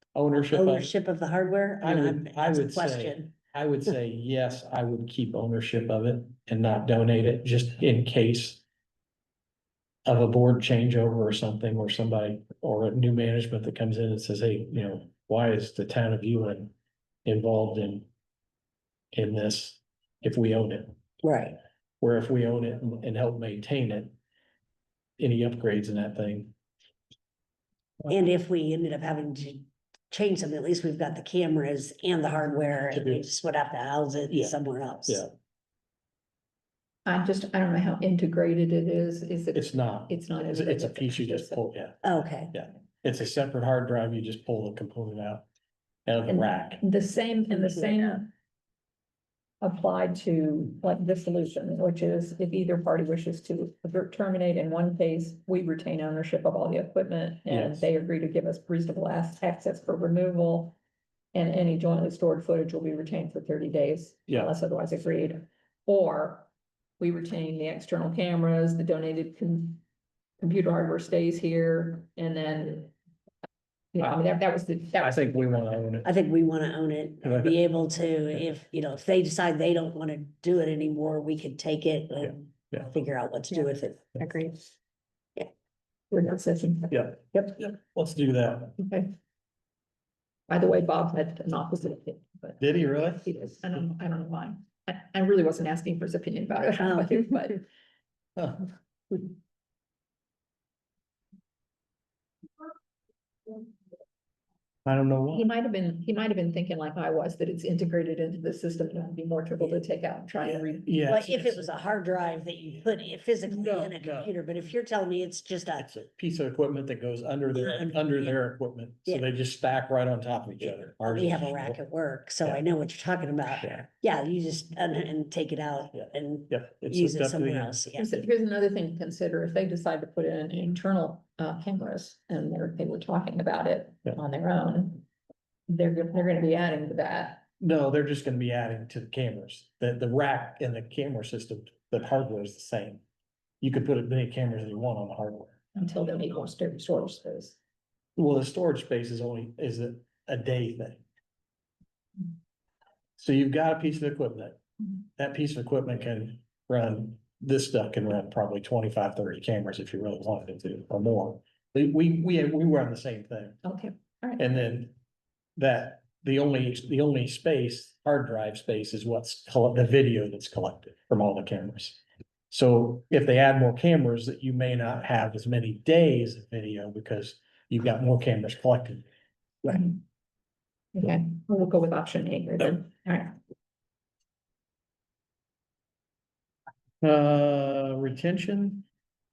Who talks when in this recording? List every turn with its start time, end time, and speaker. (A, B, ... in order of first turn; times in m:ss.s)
0:00.1-0:00.9 A
0:00.5-0:03.3 B
0:01.8-0:08.6 A
0:10.0-0:16.7 A
0:17.2-0:18.1 A
0:19.1-0:20.9 A
0:21.2-0:21.6 B
0:22.0-0:24.1 A
0:25.2-0:26.5 A
0:28.1-0:35.2 B
0:32.9-0:33.2 A
0:34.3-0:35.3 A
0:37.0-0:41.6 C
0:39.5-0:42.0 A
0:42.0-0:42.5 B
0:42.5-0:45.4 A
0:46.0-0:46.8 A
0:46.3-0:48.3 C
0:49.6-1:00.8 C
0:57.5-0:57.9 A
1:01.3-1:09.8 C
1:04.3-1:04.5 A
1:10.4-1:12.9 C
1:13.9-1:15.7 C
1:15.0-1:16.1 A
1:16.0-1:24.6 B
1:17.2-1:17.6 A
1:22.2-1:22.9 A
1:26.1-1:27.2 C
1:26.9-1:28.8 A
1:28.8-1:29.1 C
1:30.5-1:37.6 C
1:32.6-1:33.2 A
1:36.8-1:37.3 B
1:38.4-1:38.7 A
1:44.8-1:45.5 A
1:45.3-1:50.9 C
1:50.4-1:51.7 A
1:51.1-1:55.9 B
1:53.4-1:54.3 A
1:55.8-2:01.8 A
1:57.5-1:58.4 B
2:00.7-2:08.2 B
2:05.9-2:07.8 A
2:07.9-2:15.0 C
2:15.7-2:17.4 C
2:17.6-2:23.0 A
2:23.6-2:25.6 A
2:25.7-2:27.6 C
2:28.2-2:31.0 A
2:33.2-2:34.6 A
2:35.2-2:43.6 A
2:43.6-2:44.5 C
2:44.4-2:44.9 A
2:45.6-2:59.0 A
2:59.6-3:00.0 C
3:00.9-3:03.4 C
3:07.0-3:08.9 A